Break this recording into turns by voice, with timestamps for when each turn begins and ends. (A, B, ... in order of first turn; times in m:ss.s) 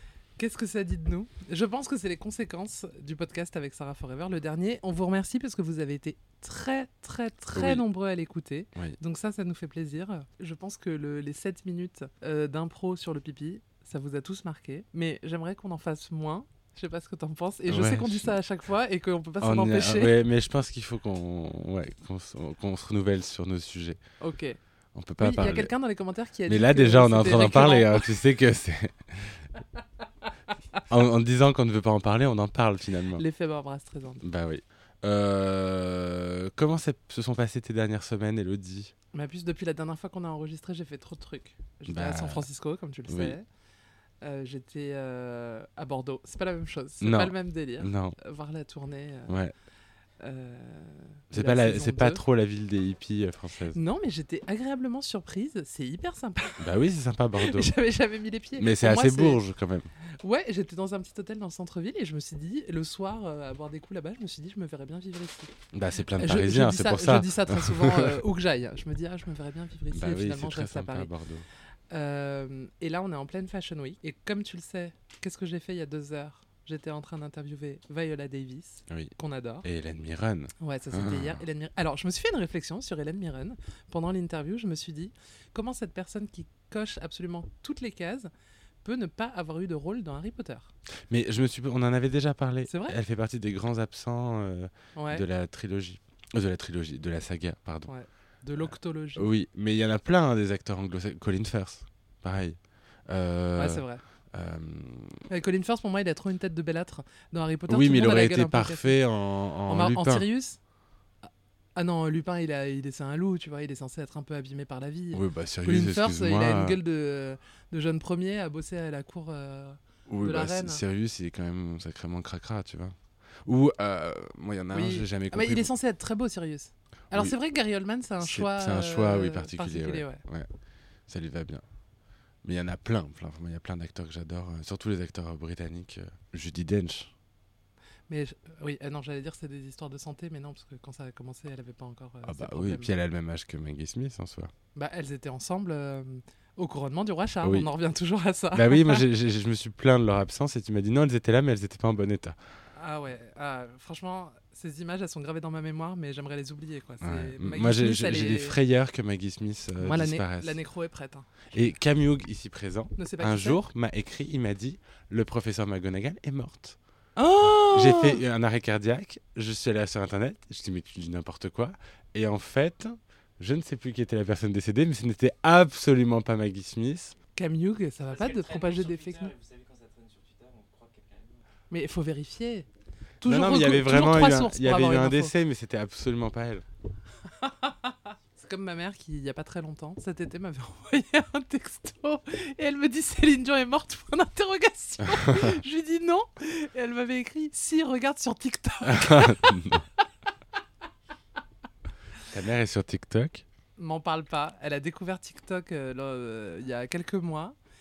0:00.4-0:20.2 A
0:07.5-0:07.8 B
0:17.7-0:18.4 B
0:19.4-0:24.0 B
0:24.2-0:24.6 A
0:25.0-0:25.7 B
0:25.2-0:28.1 A
0:26.5-0:29.4 B
0:30.9-0:33.2 B
0:33.2-0:34.2 A
0:34.2-0:38.9 B
0:39.1-0:43.4 A
0:41.9-0:42.5 B
0:43.1-0:43.4 B
0:44.2-0:49.4 A
0:47.0-0:48.2 B
0:49.3-0:49.5 B
0:50.2-0:52.2 A
0:51.3-0:53.8 B
0:53.7-0:56.7 A
0:56.6-0:57.8 B
0:57.4-0:59.4 A
0:58.6-0:59.9 B
1:00.2-1:05.5 A
1:05.7-1:08.2 B
1:06.2-1:11.1 A
1:09.9-1:11.5 B
1:11.9-1:19.7 A
1:18.9-1:19.1 B
1:19.6-1:21.4 B
1:20.6-1:28.3 A
1:28.8-1:30.7 A
1:31.1-1:37.9 B
1:32.7-1:33.0 A
1:35.0-1:35.2 A
1:37.9-1:39.3 A
1:39.2-1:45.2 B
1:43.6-1:44.0 A
1:45.3-1:49.0 A
1:47.7-1:50.3 B
1:49.7-1:50.6 A
1:51.2-2:00.8 A
1:55.1-1:56.8 B
2:00.1-2:05.7 B
2:04.7-2:10.2 A
2:08.2-2:10.5 B
2:11.1-2:11.6 B
2:12.4-2:17.1 B
2:18.1-2:22.9 A
2:22.2-2:24.5 B
2:24.8-2:29.0 A
2:27.4-2:27.7 B
2:28.5-2:32.4 B
2:32.8-2:38.6 A
2:37.0-2:40.6 B
2:39.8-2:41.5 A
2:41.5-2:46.8 B
2:43.0-2:43.6 A
2:47.2-2:48.2 A
2:47.5-2:57.2 B
2:57.4-2:59.3 A
2:58.0-3:01.5 C
3:01.7-3:02.7 A
3:03.2-3:05.3 A
3:03.2-3:06.6 B
3:07.4-3:19.7 A
3:18.8-3:19.9 B
3:22.3-3:23.4 B
3:23.8-3:27.6 A